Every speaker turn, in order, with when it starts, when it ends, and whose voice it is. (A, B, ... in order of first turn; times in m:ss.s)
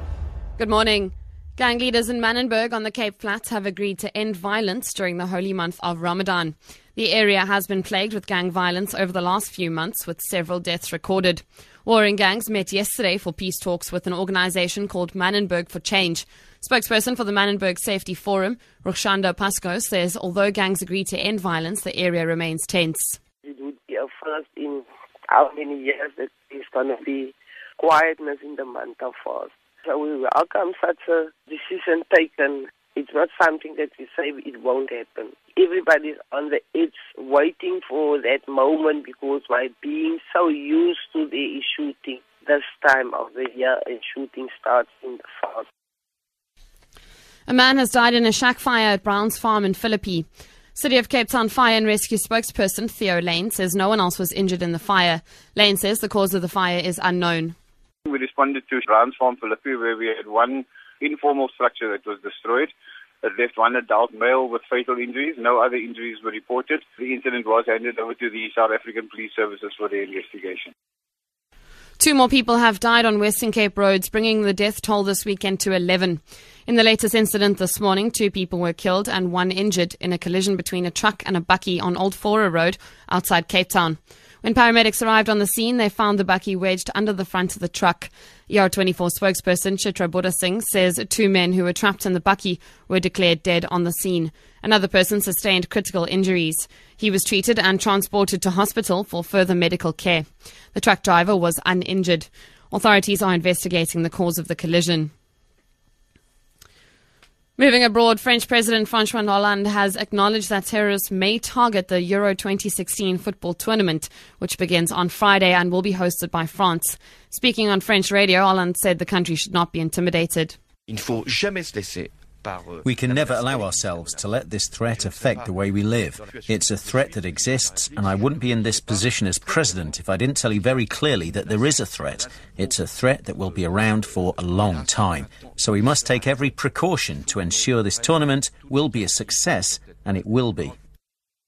0:00.6-0:23.2 A
0:23.4-0:45.6 B
0:47.5-0:57.6 A
0:58.1-1:02.7 C
1:03.2-1:10.7 C
1:12.0-1:45.1 A
1:47.6-2:00.6 A
2:00.9-2:04.2 D
2:02.8-2:20.7 E
2:04.9-2:10.0 D
2:10.7-2:16.6 D
2:17.4-2:18.1 D
2:18.9-2:19.2 D